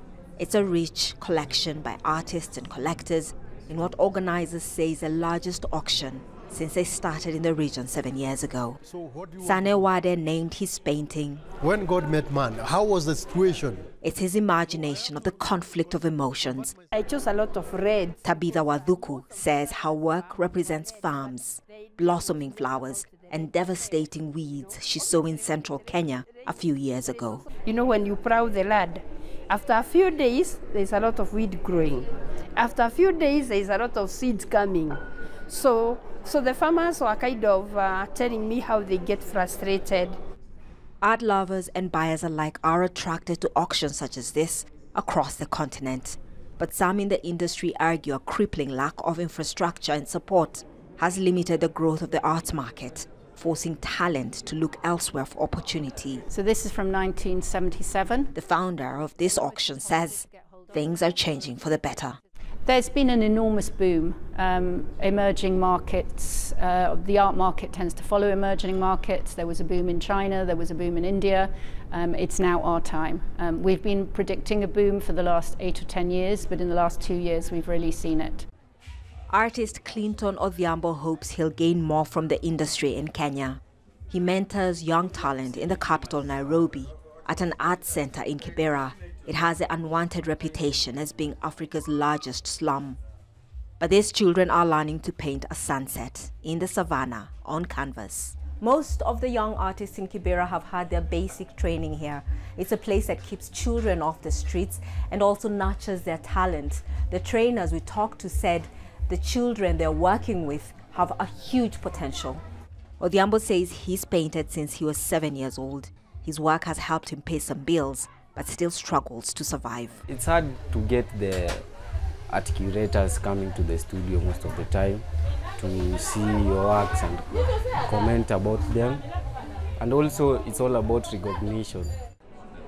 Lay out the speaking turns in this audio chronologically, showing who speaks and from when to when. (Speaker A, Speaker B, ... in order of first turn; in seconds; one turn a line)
Speaker A: 0.4-8.8
Speaker B: 8.8-9.7
Speaker A: 9.4-11.4
Speaker B: 11.6-13.9
Speaker A: 14.0-16.7
Speaker C: 16.9-18.2
Speaker A: 18.2-27.4
Speaker C: 27.6-40.2
Speaker A: 41.0-56.2
Speaker D: 56.3-58.3
Speaker A: 58.3-62.2
Speaker D: 62.6-78.5
Speaker A: 79.3-93.0
Speaker A: 93.8-112.4
Speaker A: 113.0-120.0
Speaker E: 120.1-121.6
Speaker E: 122.3-125.0
Speaker E: 125.6-129.0
Speaker E: 129.8-131.9